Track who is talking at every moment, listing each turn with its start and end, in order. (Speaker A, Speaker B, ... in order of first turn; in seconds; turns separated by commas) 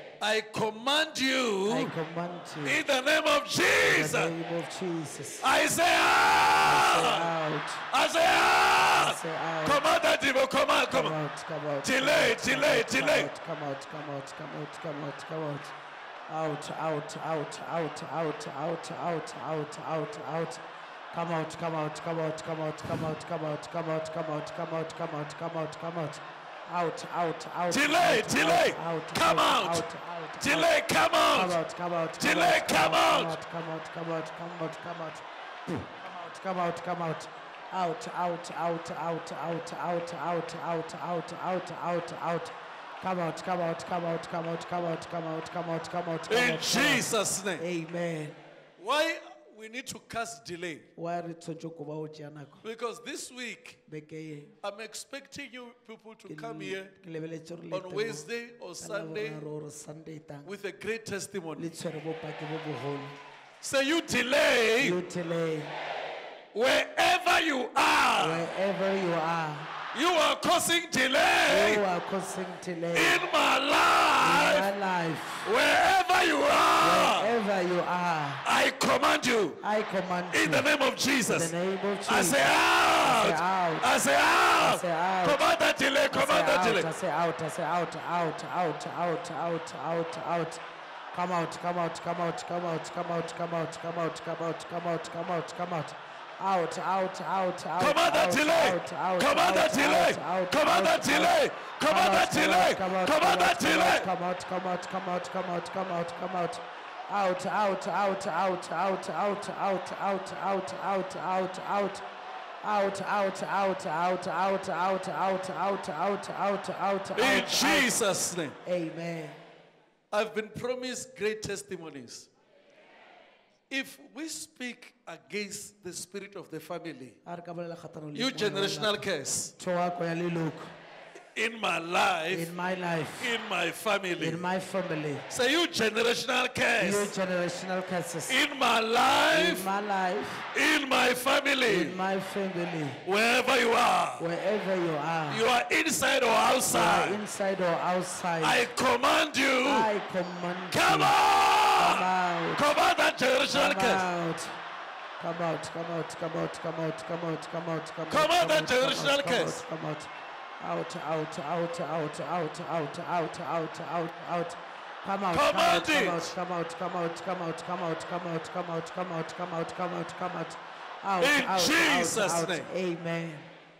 Speaker A: 0.2-1.9, Speaker B: 1.7-2.8, Speaker A: 2.6-4.3, Speaker B: 3.8-5.5, Speaker A: 5.4-7.3, Speaker B: 6.6-7.9, Speaker A: 7.9-11.2, Speaker B: 8.9-9.8, Speaker B: 10.9-15.7, Speaker A: 11.8-13.3, Speaker B: 16.3-30.7, Speaker A: 27.7-29.9, Speaker A: 30.4-31.6, Speaker B: 31.3-48.4, Speaker A: 32.2-33.4, Speaker A: 46.3-47.6, Speaker A: 48.8-50.9, Speaker B: 51.0-52.6, Speaker A: 52.6-53.8, Speaker B: 53.9-54.5, Speaker A: 54.6-56.9, Speaker B: 56.3-58.3, Speaker A: 57.7-59.5, Speaker B: 58.8-60.5, Speaker A: 60.5-61.7, Speaker B: 61.6-63.2, Speaker A: 63.6-65.0, Speaker B: 64.8-65.8, Speaker A: 66.5-68.5, Speaker B: 68.2-69.7, Speaker A: 69.9-71.8, Speaker B: 71.5-73.2, Speaker A: 72.9-74.7, Speaker B: 74.2-75.5, Speaker A: 75.5-77.3, Speaker B: 76.8-78.4, Speaker A: 78.5-79.6, Speaker B: 79.6-80.7, Speaker A: 80.3-81.5, Speaker B: 81.2-83.9, Speaker A: 82.1-86.9, Speaker B: 84.6-85.4, Speaker B: 86.1-112.0, Speaker A: 97.8-104.1, Speaker B: 112.6-118.0, Speaker A: 117.2-118.6, Speaker B: 118.6-119.4, Speaker A: 120.1-122.3, Speaker A: 123.7-127.2, Speaker B: 127.2-129.0, Speaker A: 128.1-129.5, Speaker B: 129.6-130.7, Speaker A: 131.3-132.6, Speaker B: 132.3-133.3, Speaker A: 133.2-134.4, Speaker B: 134.2-135.3, Speaker A: 135.3-137.1, Speaker B: 136.8-138.4, Speaker A: 138.3-139.7, Speaker B: 139.3-140.5, Speaker A: 140.5-142.0, Speaker B: 141.7-143.0, Speaker A: 143.1-144.3, Speaker B: 144.2-145.4, Speaker A: 145.3-147.2, Speaker B: 146.7-148.7, Speaker A: 148.4-149.9, Speaker B: 149.6-151.2, Speaker A: 150.7-154.1, Speaker B: 151.8-152.7, Speaker B: 153.5-154.6, Speaker B: 155.2-160.1, Speaker A: 158.1-159.6, Speaker B: 160.6-173.5, Speaker A: 165.3-166.3, Speaker A: 171.2-172.7